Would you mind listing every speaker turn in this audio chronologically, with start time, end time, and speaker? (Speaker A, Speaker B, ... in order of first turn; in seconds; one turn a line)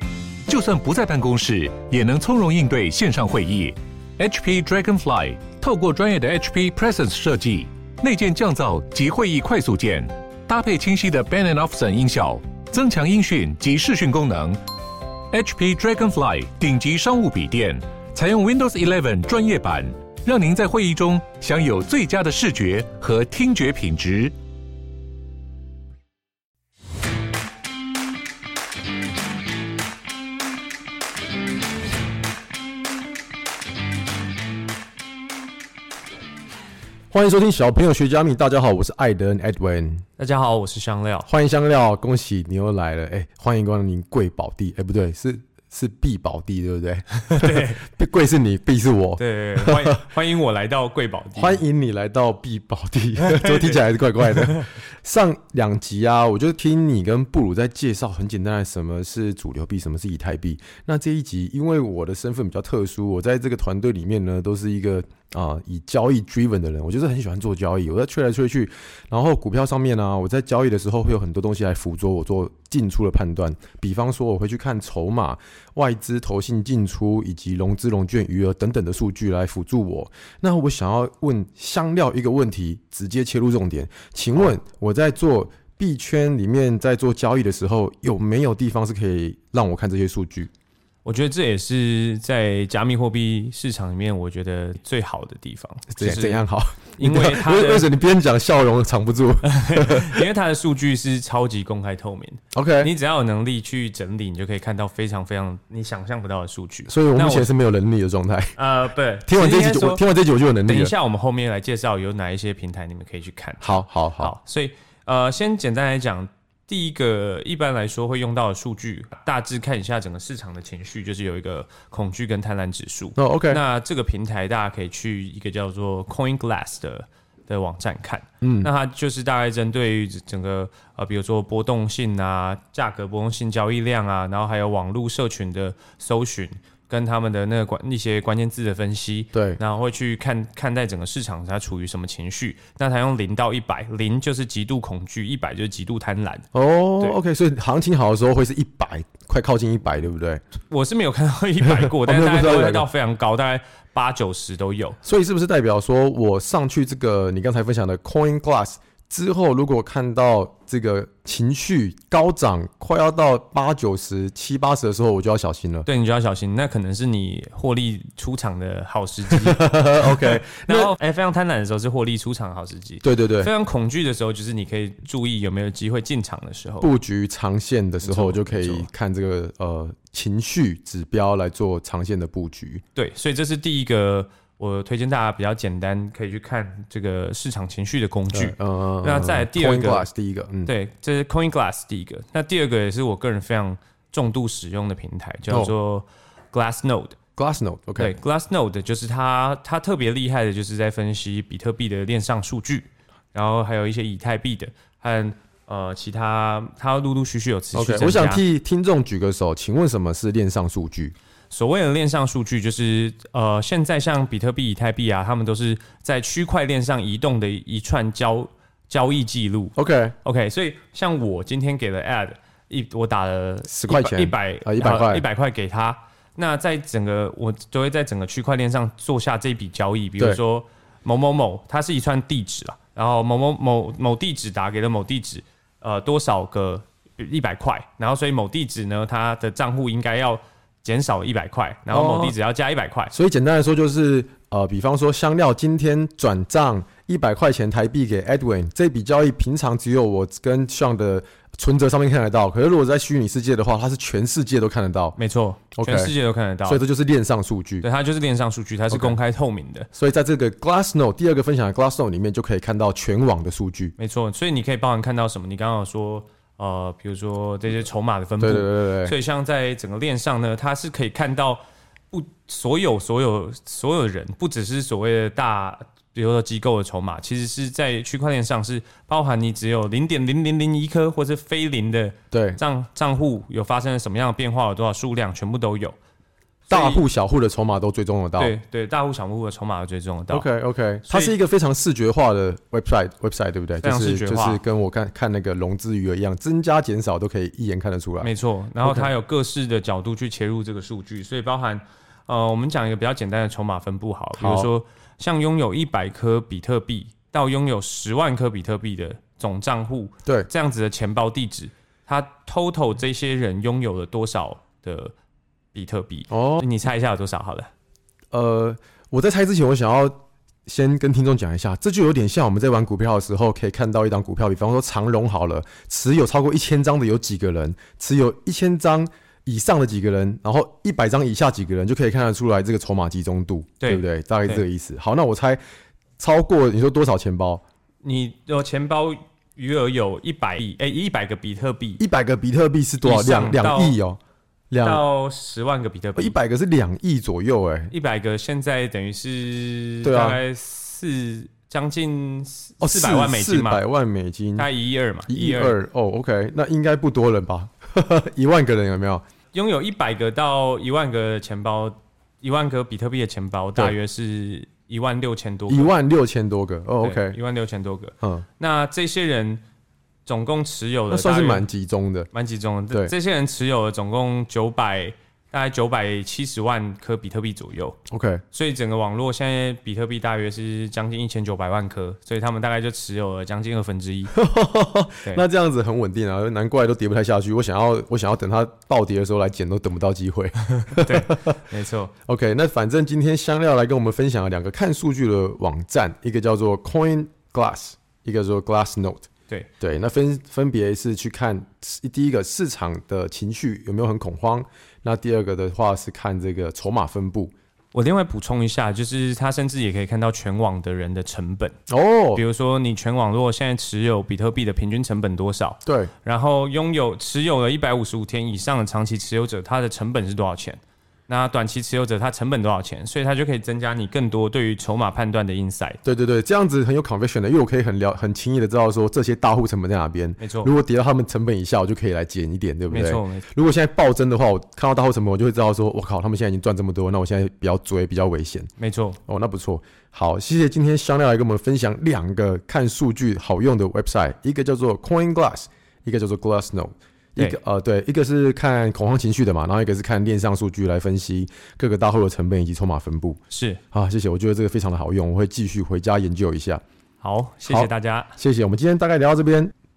Speaker A: 0.5-14.6
Speaker A: 15.3-24.3
Speaker B: 37.1-40.0
Speaker C: 40.2-41.3
Speaker B: 41.3-50.0
Speaker C: 47.2-47.8
Speaker C: 49.2-51.6
Speaker B: 51.4-90.5
Speaker C: 53.2-54.6
Speaker C: 91.0-96.4
Speaker B: 95.9-100.2
Speaker C: 97.0-97.9
Speaker C: 99.4-107.5
Speaker B: 102.5-102.9
Speaker B: 106.8-108.5
Speaker C: 108.5-110.0
Speaker B: 109.2-110.9
Speaker C: 110.6-146.4
Speaker B: 113.6-114.3
Speaker B: 123.2-123.6
Speaker B: 128.4-128.7
Speaker B: 139.3-139.6
Speaker B: 146.5-150.4
Speaker C: 150.6-155.0
Speaker B: 151.6-152.9
Speaker B: 155.0-165.9
Speaker C: 165.8-176.9
Speaker B: 169.3-170.9
Speaker B: 173.0-173.5
Speaker B: 176.8-182.8
Speaker C: 178.0-178.9
Speaker C: 182.9-190.1
Speaker B: 188.3-190.7
Speaker C: 190.6-197.2
Speaker B: 197.4-198.1
Speaker C: 198.0-208.4
Speaker B: 207.7-211.1
Speaker C: 211.5-243.1
Speaker B: 219.8-220.1
Speaker B: 223.7-225.2
Speaker B: 241.9-242.3
Speaker B: 243.1-255.2
Speaker C: 255.2-256.8
Speaker B: 255.7-257.9
Speaker C: 257.8-259.9
Speaker B: 258.9-259.2
Speaker B: 259.9-263.9
Speaker C: 264.0-286.0
Speaker B: 268.4-269.1
Speaker B: 282.3-282.6
Speaker C: 286.7-287.0
Speaker B: 286.7-288.5
Speaker C: 288.4-290.5
Speaker B: 290.3-299.1
Speaker C: 291.0-291.4
Speaker C: 293.8-294.6
Speaker C: 298.2-315.1
Speaker B: 304.4-304.7
Speaker C: 315.7-317.7
Speaker B: 316.3-316.7
Speaker B: 318.3-335.6
Speaker C: 333.8-334.6
Speaker B: 336.2-337.6
Speaker C: 338.0-342.0
Speaker B: 342.0-344.2
Speaker C: 343.0-344.0
Speaker B: 344.7-345.0
Speaker C: 344.8-346.4
Speaker B: 346.1-347.9
Speaker C: 347.9-353.8
Speaker B: 350.0-350.4
Speaker B: 352.8-354.7
Speaker C: 354.6-355.8
Speaker B: 355.3-359.2
Speaker C: 359.5-365.9
Speaker B: 365.7-367.4
Speaker C: 367.0-369.6
Speaker B: 368.2-368.4
Speaker C: 370.2-371.7
Speaker B: 371.1-372.3
Speaker C: 372.3-378.0
Speaker B: 378.1-378.4
Speaker C: 378.5-384.4
Speaker B: 384.3-391.6
Speaker C: 390.8-392.1
Speaker B: 392.2-399.3
Speaker B: 399.8-407.5
Speaker C: 407.9-411.7
Speaker B: 411.9-412.4
Speaker C: 412.3-426.0
Speaker B: 415.8-416.1
Speaker B: 426.0-438.7
Speaker C: 430.4-430.7
Speaker C: 432.9-433.4
Speaker C: 438.8-439.2
Speaker B: 439.3-453.4
Speaker C: 453.5-453.8
Speaker B: 453.9-456.8
Speaker C: 457.2-458.3
Speaker B: 457.7-459.7